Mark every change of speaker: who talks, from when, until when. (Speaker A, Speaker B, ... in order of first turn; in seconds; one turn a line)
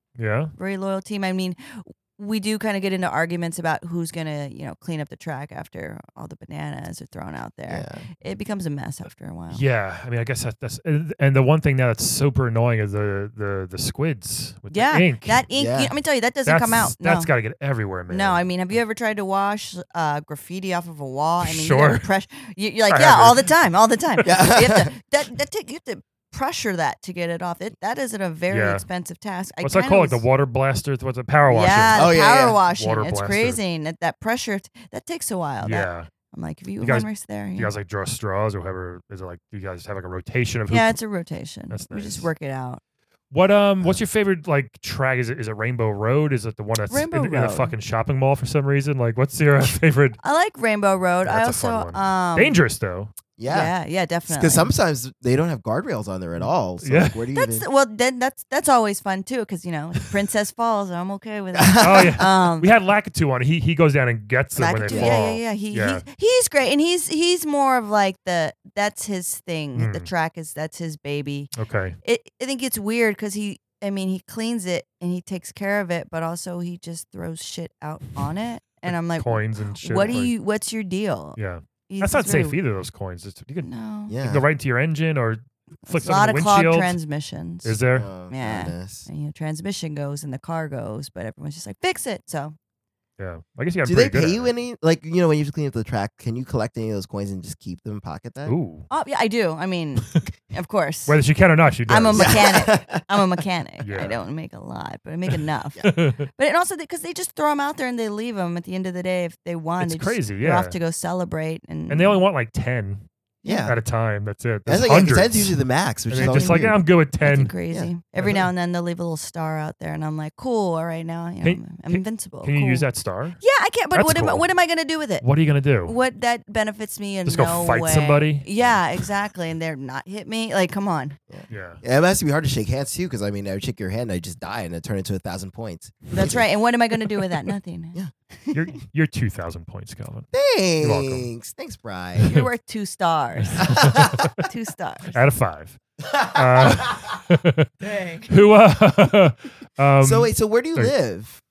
Speaker A: 0.2-0.5
Speaker B: 0.6-9.6
Speaker C: 7.7-8.1
Speaker A: 9.5-15.4
Speaker B: 14.7-17.3
Speaker C: 15.5-15.9
Speaker A: 16.4-18.4
Speaker B: 18.1-30.2
Speaker A: 21.4-22.1
Speaker A: 22.9-23.5
Speaker C: 24.2-24.9
Speaker A: 28.5-28.8
Speaker A: 29.6-33.6
Speaker B: 31.5-37.7
Speaker C: 31.9-32.6
Speaker A: 35.6-36.1
Speaker A: 36.8-41.0
Speaker B: 40.7-42.8
Speaker A: 41.7-42.3
Speaker A: 43.3-50.2
Speaker B: 46.9-47.7
Speaker B: 50.2-52.6
Speaker A: 51.2-53.1
Speaker C: 53.4-53.7
Speaker B: 53.4-54.7
Speaker C: 54.3-57.6
Speaker A: 56.4-57.3
Speaker B: 57.3-62.7
Speaker C: 61.5-62.2
Speaker A: 61.8-66.0
Speaker B: 64.5-71.5
Speaker C: 64.9-65.3
Speaker A: 69.7-70.1
Speaker A: 71.5-72.0
Speaker B: 72.0-81.4
Speaker A: 79.2-80.3
Speaker A: 81.4-83.7
Speaker B: 81.9-82.6
Speaker B: 83.6-84.1
Speaker C: 84.1-84.5
Speaker A: 84.2-87.0
Speaker B: 85.8-87.8
Speaker A: 87.6-88.1
Speaker C: 87.9-89.1
Speaker B: 88.3-92.5
Speaker A: 93.2-94.5
Speaker C: 93.8-98.5
Speaker A: 98.4-98.9
Speaker B: 98.9-101.2
Speaker A: 101.1-102.5
Speaker B: 101.9-112.2
Speaker C: 102.1-103.3
Speaker A: 103.8-104.2
Speaker A: 105.8-106.3
Speaker A: 109.8-110.8
Speaker A: 111.9-113.0
Speaker B: 113.4-113.7
Speaker C: 113.4-113.8
Speaker A: 113.6-115.5
Speaker C: 114.7-116.8
Speaker A: 116.1-117.5
Speaker B: 116.2-122.9
Speaker C: 117.7-118.4
Speaker A: 121.4-123.4
Speaker B: 123.4-125.2
Speaker A: 123.9-124.5
Speaker A: 125.2-125.9
Speaker B: 125.8-131.2
Speaker A: 127.2-128.5
Speaker C: 131.3-136.4
Speaker A: 131.5-131.8
Speaker B: 136.1-138.7
Speaker A: 138.5-140.3
Speaker C: 140.3-142.3
Speaker A: 140.8-141.3
Speaker A: 142.2-142.5
Speaker B: 142.2-143.8
Speaker A: 143.4-144.4
Speaker B: 144.4-145.2
Speaker A: 145.1-147.7
Speaker C: 146.2-146.9
Speaker B: 147.8-148.3
Speaker A: 148.3-150.9
Speaker C: 150.0-151.4